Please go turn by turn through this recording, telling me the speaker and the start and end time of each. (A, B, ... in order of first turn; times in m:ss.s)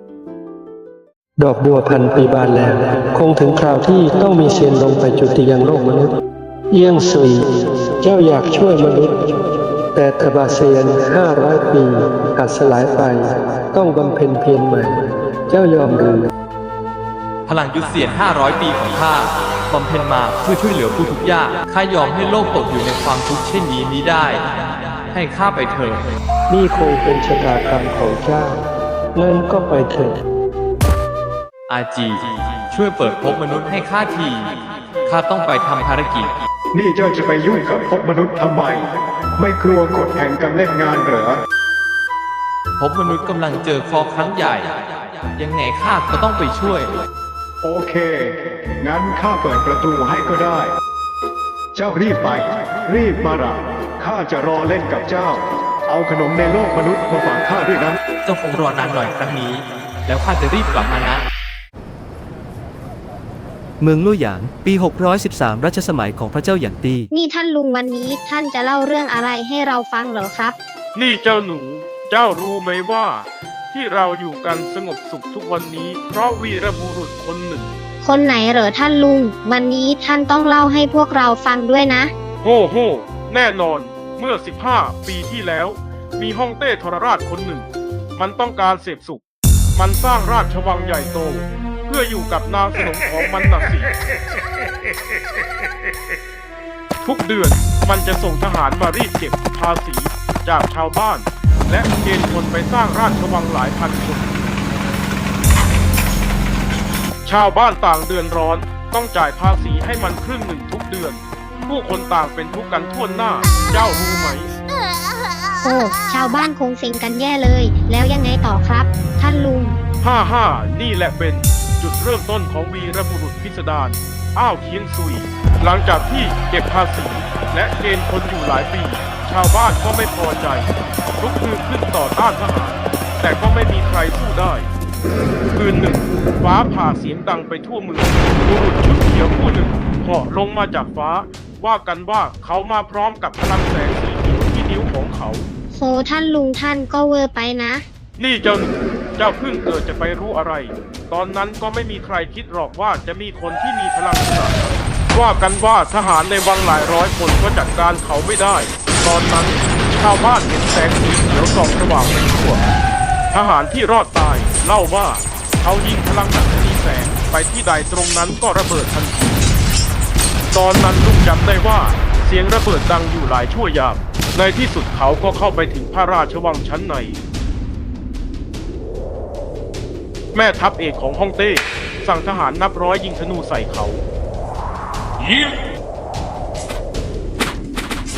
0:01.4-0:06.1 A
0:06.7-0:09.4 A
0:09.9-0:16.3 A
0:17.5-0:26.1 B
0:26.5-0:28.6 A
0:29.2-0:30.2 A
0:31.7-0:36.4 B
0:36.7-0:41.4 C
0:42.8-0:47.0 B
0:47.6-0:50.8 C
0:51.7-0:58.0 C
0:58.2-1:01.3 B
1:03.8-1:07.1 D
1:07.1-1:10.6 E
1:11.0-1:17.8 F
1:18.0-1:22.1 E
1:22.4-1:29.2 F
1:29.8-1:33.9 F
1:37.0-1:44.5 F
1:47.2-1:54.5 F
1:55.6-1:59.8 E
2:00.0-2:14.7 F
2:15.5-2:25.5 F
2:25.7-2:27.8 E
2:28.2-2:42.6 F
2:43.3-2:49.4 F
2:50.5-2:57.2 F
3:00.3-3:04.0 F
3:05.2-3:05.6 F